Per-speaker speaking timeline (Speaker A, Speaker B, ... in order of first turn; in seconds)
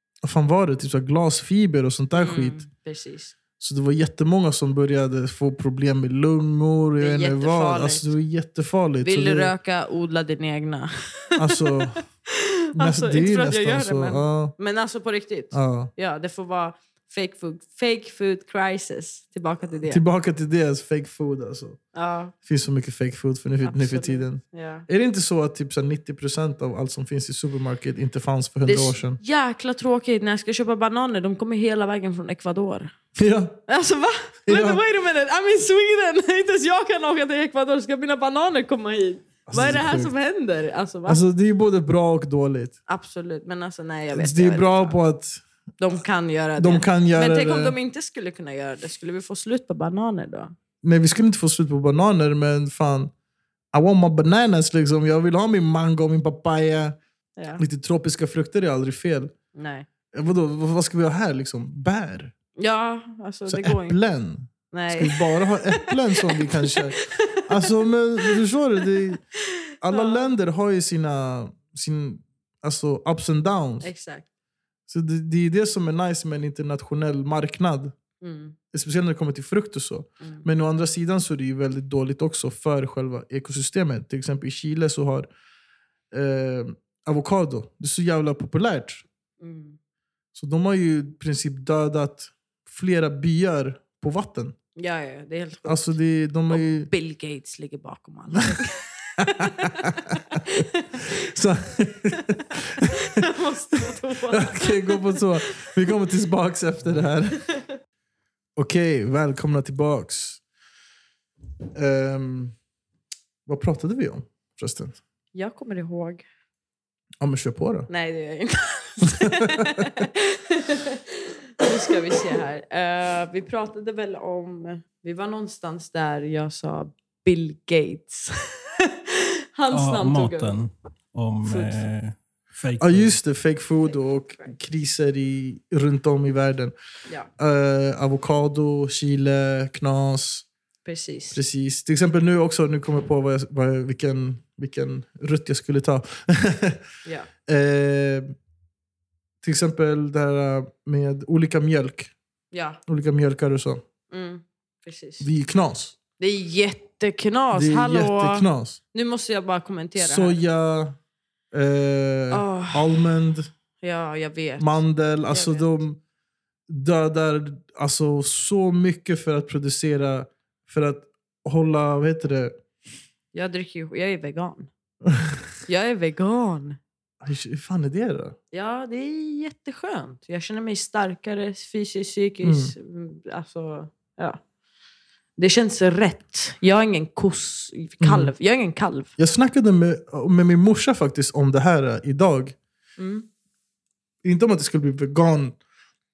Speaker A: 0.2-2.6, 3.6-9.5, 11.4-12.0, 12.7-14.5, 15.5-15.9, 19.9-21.8, 22.4-29.2, 33.1-33.6, 34.5-34.8, 39.5-40.1, 41.1-42.8, 44.1-45.4, 46.6-47.7, 50.8-53.1, 53.7-57.0, 57.6-59.3, 60.1-62.3, 63.5-69.2, 69.8-73.9, 74.9-77.9, 78.7-85.3, 86.1-89.0, 90.3-94.5, 95.7-96.9, 99.2-100.2, 101.2-103.0, 104.3-107.4, 108.5-110.4, 111.7-112.5, 113.5-115.0, 117.2-117.9, 119.2-119.8, 132.8-136.7, 137.4-140.5, 141.3-146.8, 147.4-148.3, 149.4-152.1, 152.9-153.8, 155.2-155.9, 157.5-158.8, 160.0-160.9, 161.5-163.5, 164.6-166.0, 166.7-172.6, 175.1-175.4, 177.2-178.3, 182.4-182.7, 188.0-188.3, 189.2-192.6, 194.2-195.6
Speaker B: 2.1-3.3, 7.0-8.1, 9.0-20.0, 21.9-22.3, 23.6-24.9, 28.6-32.9, 33.7-41.2, 42.9-45.0, 45.8-50.5, 57.4-57.6, 59.5-59.9, 62.6-64.0, 64.7-68.4, 69.9-70.2, 73.8-74.2, 78.2-78.5, 80.2-80.5, 89.4-89.8, 94.8-95.9, 96.5-101.2, 102.2-105.9, 115.3-116.2, 117.9-130.6, 131.4-131.8, 140.8-141.4, 152.5-152.8, 154.1-155.3, 156.2-160.4, 162.3-163.0, 163.8-165.7, 173.3-174.7, 175.7-176.8, 178.5-184.4, 185.4-189.1, 193.0-193.2
Speaker C: 129.7-133.1